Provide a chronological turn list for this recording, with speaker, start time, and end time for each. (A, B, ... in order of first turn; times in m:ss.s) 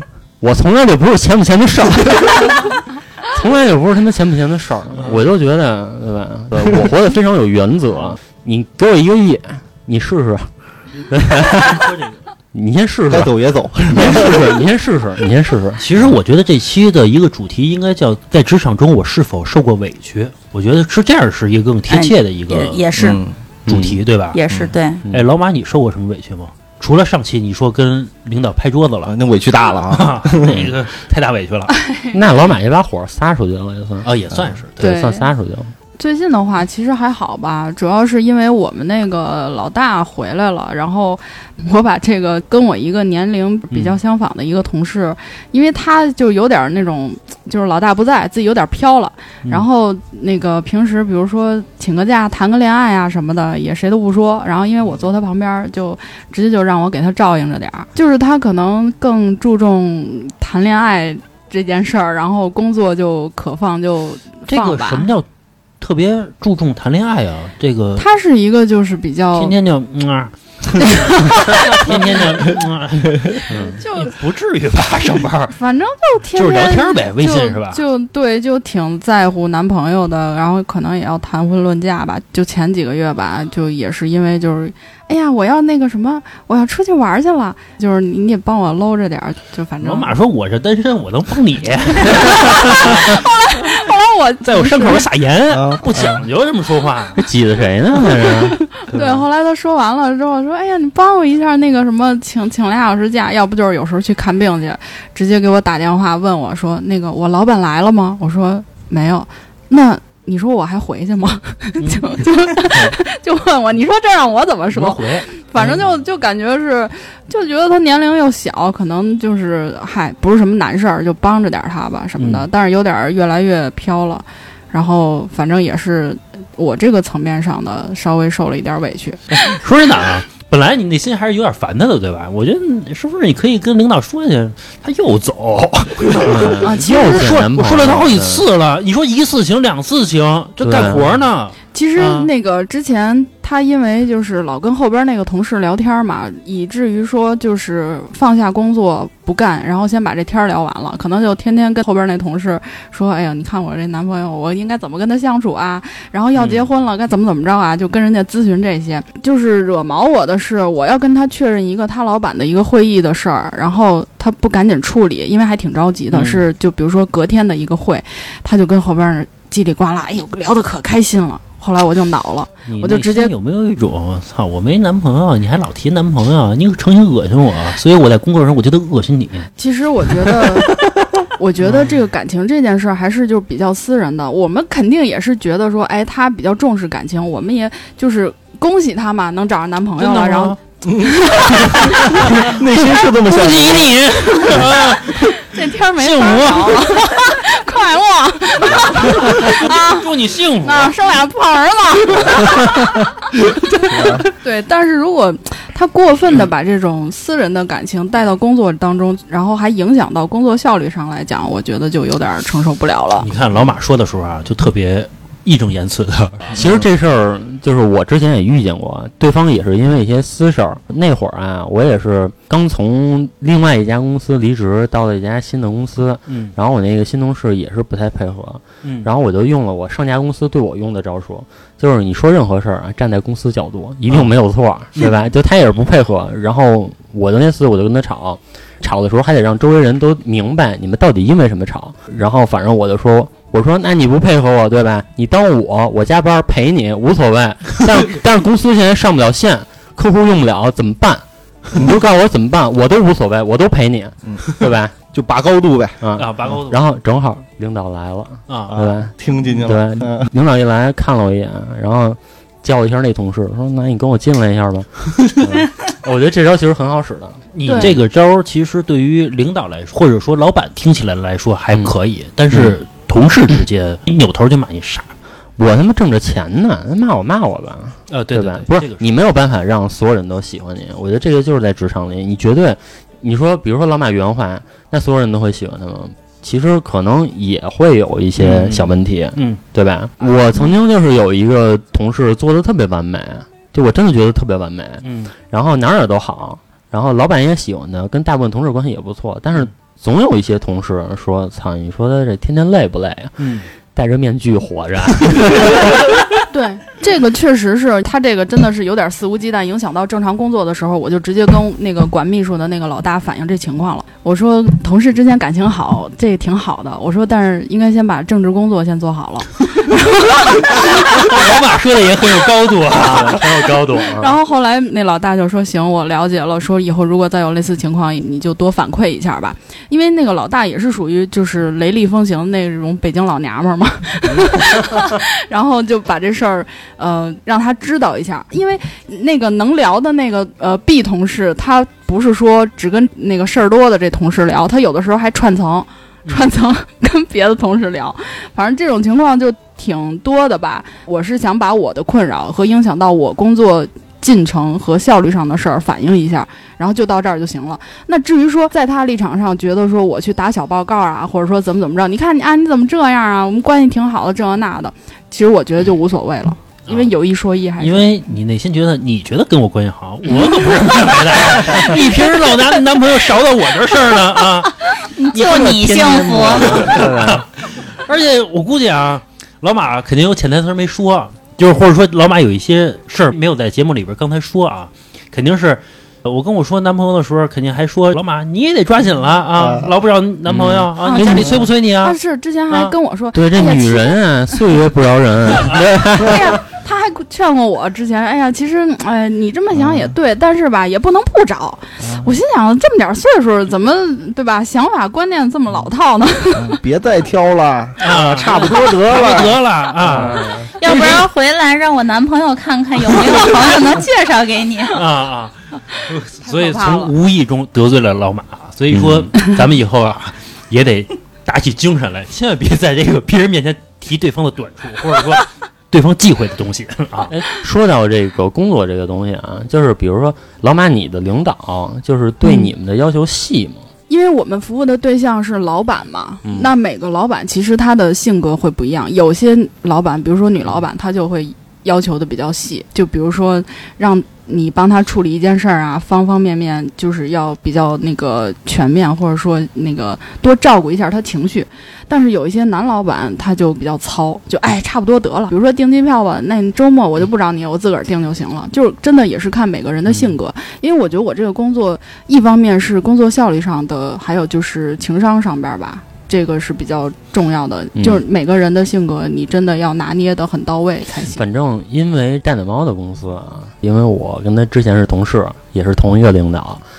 0:00.4-0:11.9 A
0:11.6-0:12.2 B
0:12.5-0:13.3 A
0:13.1-0:14.5 C
0:13.9-0:15.8 A
0:15.8-0:22.9 B
0:21.9-0:23.2 D
0:23.0-0:23.4 C
0:23.7-0:24.0 A
0:23.7-0:24.4 B
0:24.3-0:25.0 D
0:25.1-0:29.2 B
0:29.1-0:30.6 C
0:29.8-0:31.8 B
0:32.1-0:34.1 A
0:34.0-0:34.9 B
0:34.8-0:35.7 A
0:34.8-0:35.3 E
0:36.0-1:05.1 E
0:43.7-0:44.0 B
1:04.5-1:05.3 B
1:05.8-1:08.1 B
1:08.0-1:09.5 E
1:09.3-1:15.5 B
1:10.8-1:12.6 E
1:13.5-1:13.8 A
1:13.8-1:14.1 E
1:15.5-1:30.1 E
1:16.4-1:17.8 B
1:29.8-1:33.2 B
1:32.0-1:35.0 E
1:34.4-1:37.2 B
1:35.5-1:36.2 C
1:37.2-1:38.6 A
1:38.0-2:09.4 E
1:38.9-1:39.2 B
1:51.8-1:52.2 B
1:54.7-1:55.9 B
2:02.2-2:02.5 B
2:09.4-2:22.3 B
2:16.2-2:18.4 A
2:16.3-2:17.3 E
2:20.6-2:21.1 A
2:21.7-2:53.3 E
2:36.4-2:36.6 B
2:46.1-2:46.4 B
2:52.7-2:59.5 B
2:59.6-3:00.8 E
3:01.4-3:12.4 E
3:01.6-3:02.0 B
3:10.0-3:10.6 B
3:10.8-3:14.0 C
3:11.6-3:12.5 B
3:13.1-3:17.3 B
3:14.5-3:33.3 E
3:18.7-3:20.9 B
3:23.9-3:24.2 C
3:33.2-3:36.8 B
3:36.6-4:14.9 A
3:46.3-3:46.5 B
3:48.8-3:49.1 B
4:15.0-4:16.0 C
4:16.0-4:27.9 A
4:16.2-4:16.8 B
4:18.5-4:18.7 B
4:18.7-4:20.2 C
4:27.5-4:35.1 B
4:27.6-4:28.0 E
4:35.6-5:03.4 A
4:38.1-4:39.1 B
4:48.4-4:49.6 B
4:55.0-4:55.3 B
5:03.4-5:03.7 B
5:03.9-5:06.2 A
5:06.5-5:21.4 E
5:20.8-5:24.2 B
5:23.0-5:24.4 A
5:24.1-6:08.1 E
6:07.8-6:14.7 B
6:15.0-6:16.9 D
6:15.3-6:32.2 B
6:15.4-6:17.4 A
6:30.5-6:31.6 A
6:31.0-6:34.6 E
6:32.7-6:32.9 B
6:33.3-6:36.6 A
6:36.1-6:46.8 E
6:42.0-6:42.3 C
6:46.6-6:49.6 C
6:48.0-6:51.2 B
6:48.6-6:48.8 E
6:50.0-6:50.7 A
6:50.8-6:55.0 D
6:54.9-7:07.3 B
6:56.6-6:57.0 E
6:58.9-6:59.3 A
7:07.3-7:13.9 A
7:14.1-7:51.4 E
7:16.4-7:16.7 A
7:48.0-7:48.2 A
7:51.3-7:56.8 A